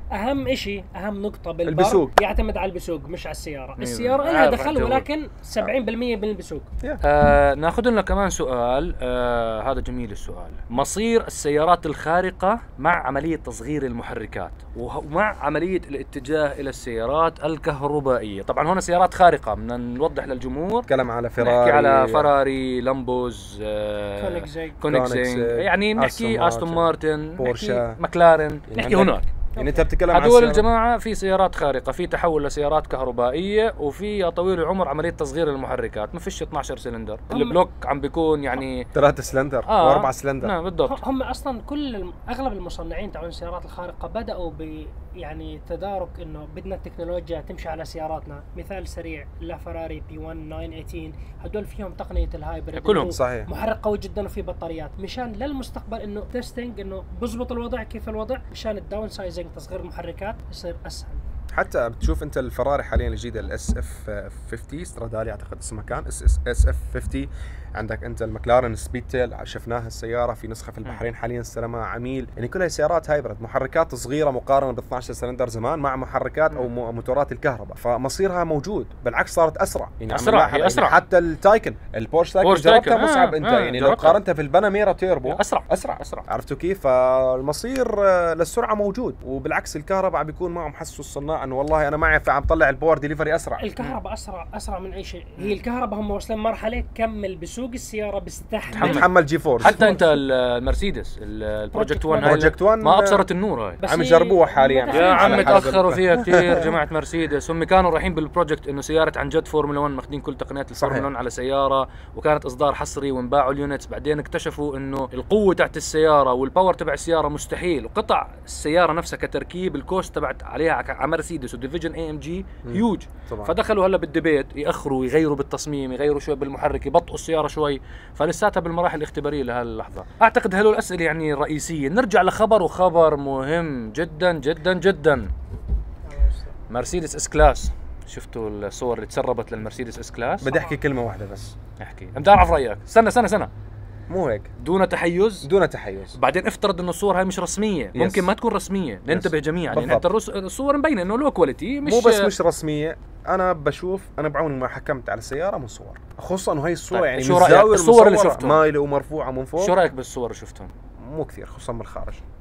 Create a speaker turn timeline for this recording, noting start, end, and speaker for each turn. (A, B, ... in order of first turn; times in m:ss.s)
0:00.1-0:06.7 A
0:01.6-0:02.1 B
0:03.8-0:05.0 C
0:07.0-0:29.3 C
0:20.9-0:22.3 B
0:24.2-0:24.8 A
0:24.9-0:26.8 B
0:27.4-0:28.0 B
0:28.7-0:30.6 B
0:29.6-0:29.9 A
0:30.1-0:38.9 C
0:37.3-0:37.6 A
0:38.9-0:40.5 B
0:39.7-0:41.0 C
0:40.8-1:01.2 A
0:52.8-0:53.1 C
0:53.0-0:53.5 B
1:01.5-1:33.6 B
1:20.1-1:21.0 C
1:22.4-1:24.2 C
1:25.3-1:26.3 C
1:33.6-1:39.1 A
1:38.7-1:39.8 B
1:38.8-1:43.8 C
1:39.6-1:40.2 A
1:41.7-1:42.4 A
1:42.2-1:43.2 B
1:43.8-1:45.8 A
1:43.8-1:46.8 B
1:44.9-2:15.3 C
1:50.8-1:51.1 B
2:02.6-2:03.5 B
2:16.0-2:16.5 A
2:16.7-2:20.5 C
2:20.4-2:21.6 B
2:20.4-2:20.8 A
2:21.8-2:23.5 C
2:24.1-2:24.5 B
2:24.6-2:25.5 C
2:25.4-2:26.2 B
2:26.2-2:32.3 C
2:27.9-2:28.3 B
2:29.1-2:30.0 B
2:31.8-2:39.8 B
2:36.9-2:38.6 C
2:39.6-2:40.7 C
2:41.0-2:42.2 B